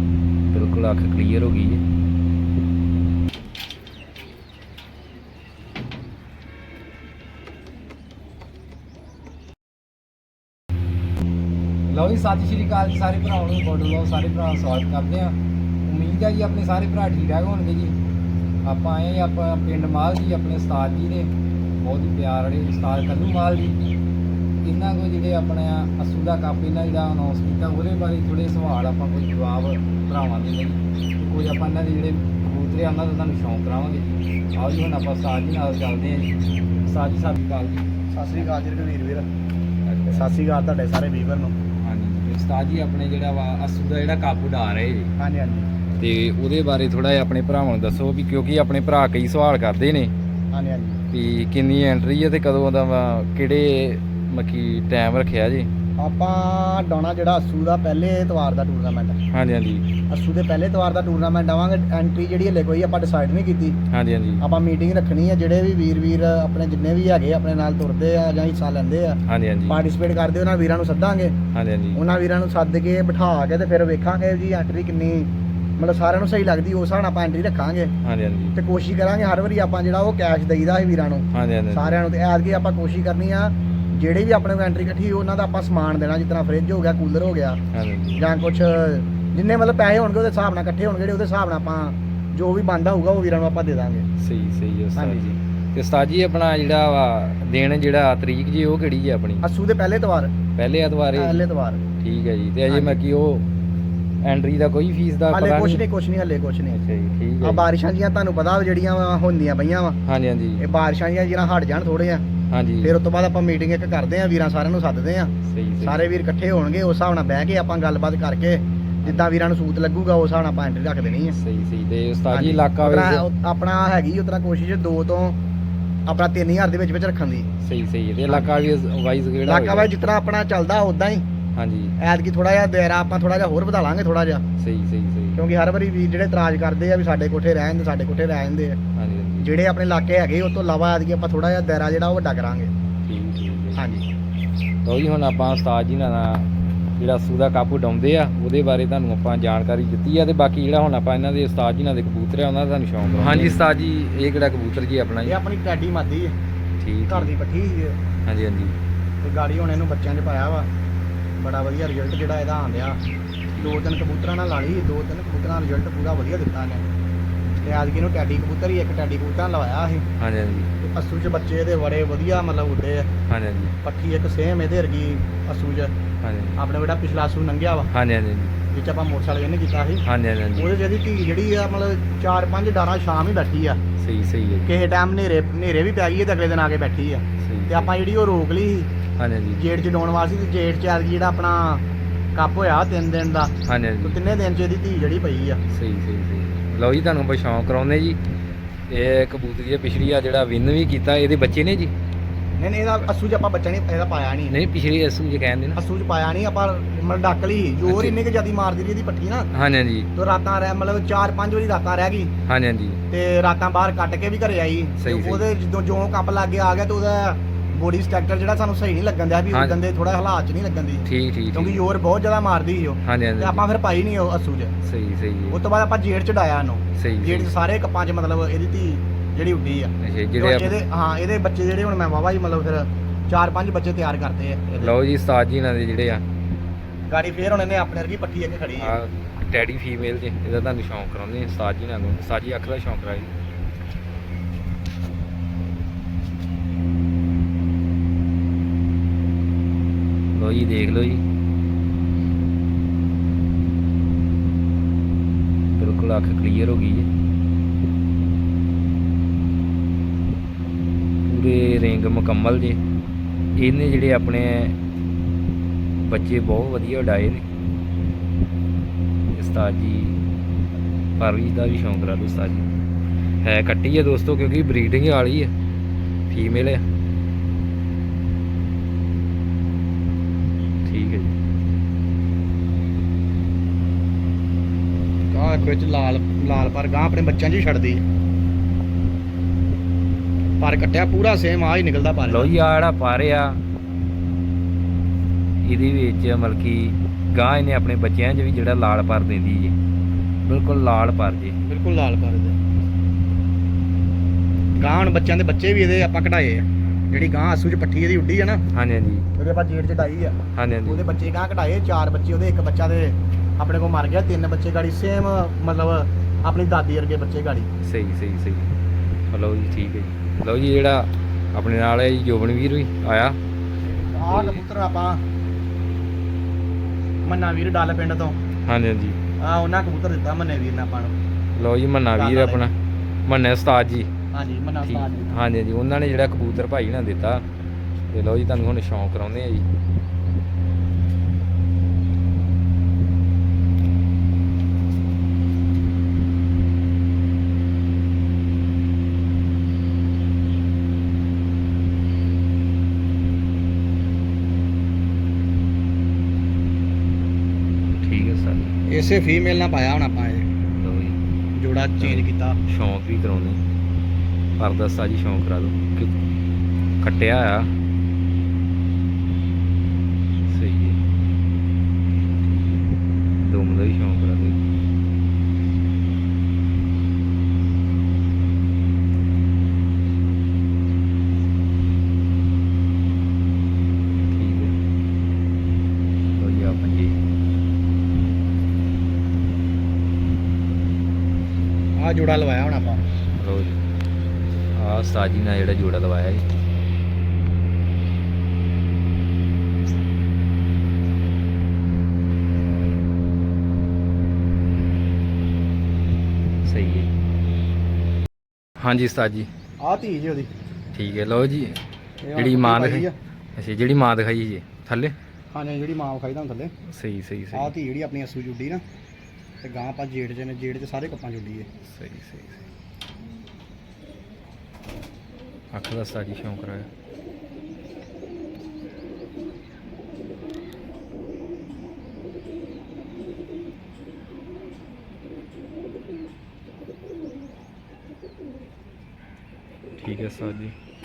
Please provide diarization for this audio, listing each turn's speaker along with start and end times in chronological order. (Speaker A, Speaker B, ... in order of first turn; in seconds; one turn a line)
Speaker A: 0.5-1.8
Speaker A: 11.9-18.0
Speaker A: 18.6-23.8
Speaker A: 24.6-37.8
Speaker B: 38.1-39.3
Speaker A: 39.9-40.3
Speaker B: 40.1-41.5
Speaker A: 41.8-45.1
Speaker B: 45.2-45.7
Speaker A: 46.0-50.1
Speaker B: 50.5-51.0
Speaker A: 51.1-55.7
Speaker B: 56.0-59.2
Speaker A: 59.3-59.8
Speaker B: 60.1-63.8
Speaker A: 63.9-64.4
Speaker B: 64.4-71.4
Speaker A: 69.3-69.8
Speaker A: 71.5-72.0
Speaker B: 72.0-77.9
Speaker A: 78.0-78.5
Speaker B: 78.5-87.6
Speaker A: 81.3-82.0
Speaker A: 87.7-88.2
Speaker B: 88.1-94.1
Speaker A: 94.2-99.4
Speaker B: 95.0-95.3
Speaker B: 99.4-100.3
Speaker A: 100.6-101.5
Speaker B: 101.1-101.8
Speaker A: 102.0-103.5
Speaker B: 102.7-103.0
Speaker A: 104.2-105.8
Speaker B: 105.3-106.8
Speaker A: 106.7-107.6
Speaker B: 107.4-110.0
Speaker A: 110.1-110.6
Speaker B: 110.6-112.2
Speaker A: 112.5-113.0
Speaker B: 112.8-121.4
Speaker A: 115.5-116.0
Speaker A: 121.3-123.3
Speaker B: 122.3-125.4
Speaker B: 126.1-127.5
Speaker A: 127.6-129.9
Speaker B: 129.4-131.3
Speaker A: 131.6-131.9
Speaker B: 132.0-134.4
Speaker A: 134.6-135.4
Speaker B: 135.3-138.8
Speaker A: 139.0-139.5
Speaker B: 139.4-142.7
Speaker A: 143.1-143.8
Speaker B: 143.8-144.1
Speaker A: 144.8-155.4
Speaker B: 155.2-156.3
Speaker A: 156.8-157.3
Speaker B: 157.1-158.0
Speaker A: 158.3-158.8
Speaker B: 159.2-160.7
Speaker B: 161.4-163.0
Speaker A: 163.5-163.8
Speaker B: 163.6-166.8
Speaker B: 167.6-170.1
Speaker A: 170.2-170.7
Speaker B: 170.8-173.1
Speaker A: 173.3-173.7
Speaker B: 173.8-175.9
Speaker A: 176.2-176.6
Speaker B: 176.6-177.9
Speaker A: 177.9-178.5
Speaker B: 178.7-180.1
Speaker A: 180.0-180.8
Speaker B: 180.6-183.8
Speaker A: 184.0-184.7
Speaker B: 184.7-188.9
Speaker A: 187.4-187.9
Speaker A: 189.2-189.6
Speaker B: 189.6-193.5
Speaker A: 193.7-194.2
Speaker B: 194.0-195.6
Speaker A: 195.7-198.2
Speaker A: 198.9-201.9
Speaker B: 202.6-204.6
Speaker A: 204.5-205.8
Speaker B: 205.8-209.5
Speaker A: 207.8-208.2
Speaker A: 209.5-210.1
Speaker B: 210.2-212.3
Speaker A: 212.5-213.0
Speaker B: 213.1-224.8
Speaker A: 215.0-215.5
Speaker A: 219.5-219.8
Speaker A: 221.1-221.8
Speaker A: 223.1-223.7
Speaker A: 224.8-225.6
Speaker B: 225.5-234.9
Speaker A: 227.0-227.5
Speaker A: 230.0-230.8
Speaker A: 234.8-236.2
Speaker B: 237.1-238.9
Speaker A: 238.8-243.3
Speaker A: 250.3-251.2
Speaker A: 255.7-257.1
Speaker A: 261.3-262.8
Speaker A: 263.6-264.8
Speaker A: 266.1-267.4
Speaker A: 269.3-270.2
Speaker A: 271.2-272.7
Speaker A: 273.4-275.5
Speaker A: 276.3-276.8
Speaker A: 280.9-281.4
Speaker B: 285.3-288.0
Speaker B: 290.6-292.6
Speaker A: 292.3-293.6
Speaker A: 295.6-299.8
Speaker A: 300.5-301.6
Speaker B: 301.6-302.6
Speaker B: 304.8-308.6
Speaker A: 308.7-309.3
Speaker B: 309.4-317.7
Speaker A: 310.6-311.1
Speaker A: 317.8-318.7
Speaker A: 319.3-323.4
Speaker B: 323.9-325.2
Speaker A: 324.3-324.6
Speaker B: 327.3-328.4
Speaker A: 328.7-329.2
Speaker B: 329.4-331.1
Speaker A: 331.6-332.7
Speaker B: 332.1-332.7
Speaker A: 333.3-334.1
Speaker B: 334.3-335.4
Speaker A: 334.8-337.4
Speaker A: 338.1-339.7
Speaker A: 358.0-358.7
Speaker B: 358.9-360.5
Speaker A: 360.7-361.2
Speaker B: 361.6-362.6
Speaker A: 362.0-363.6
Speaker A: 364.6-366.1
Speaker A: 367.0-367.7
Speaker A: 370.5-371.0
Speaker A: 373.4-374.6
Speaker A: 384.2-384.7
Speaker A: 386.4-387.2
Speaker B: 392.0-393.0
Speaker A: 393.4-393.8
Speaker A: 394.8-396.4
Speaker A: 406.6-407.1
Speaker A: 408.8-409.5
Speaker B: 409.8-410.5
Speaker A: 410.9-411.8
Speaker B: 412.2-413.1
Speaker A: 412.4-415.1
Speaker B: 415.5-416.7
Speaker A: 416.9-417.7
Speaker B: 417.5-418.8
Speaker B: 419.6-421.7
Speaker A: 421.9-422.6
Speaker A: 425.7-426.9
Speaker A: 440.0-440.7